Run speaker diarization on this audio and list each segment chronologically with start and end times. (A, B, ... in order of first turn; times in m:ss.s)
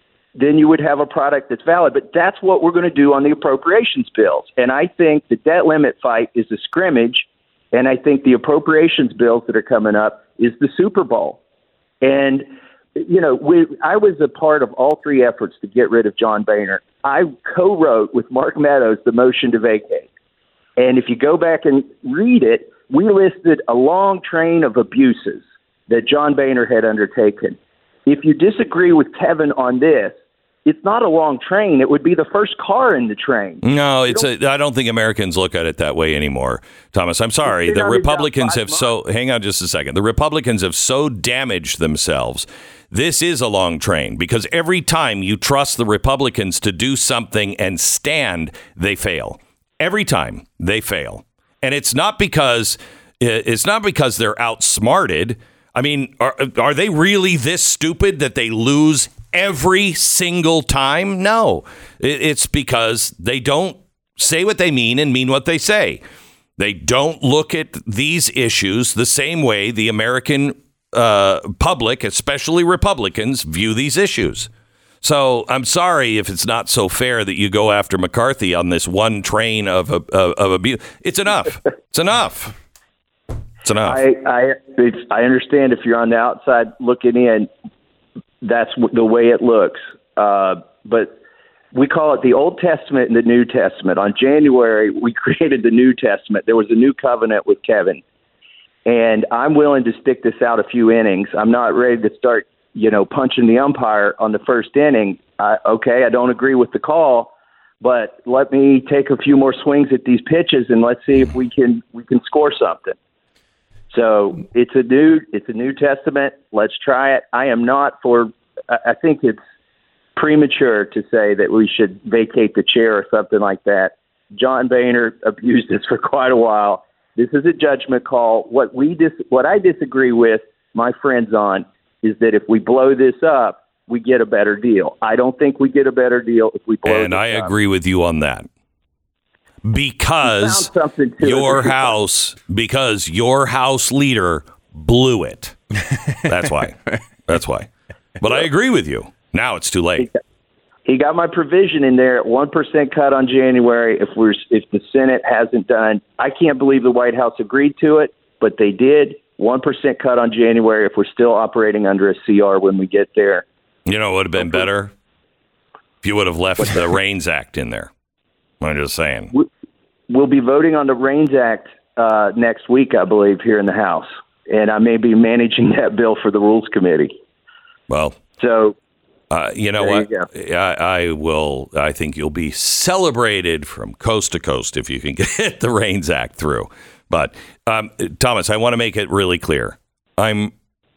0:00.4-0:11.4 A
0:12.0-0:12.4 A
0:13.0-0:20.1 A
0:20.8-0:30.1 A
0:30.6-0:34.3 A
0:33.6-1:06.0 B
0:37.5-0:38.9 A
1:06.6-1:14.5 B
1:15.0-1:22.6 B
1:23.6-1:24.0 B
1:23.8-1:27.5 A
1:28.4-1:31.2 A
1:31.7-1:38.0 A
1:38.9-1:53.0 A
1:53.9-1:59.4 A
2:00.2-2:17.5 A
2:16.8-2:18.5 B
2:19.6-2:20.7 B
2:20.2-2:21.9 A
2:21.2-2:25.6 B
2:26.2-2:30.1 B
2:30.9-2:43.4 A
2:43.9-2:44.9 B
2:46.0-2:47.9 B
2:48.6-2:49.3 B
2:50.1-2:57.1 A
2:57.9-2:58.2 B
2:58.4-2:58.8 A
2:59.3-3:10.5 B
2:59.8-3:00.3 A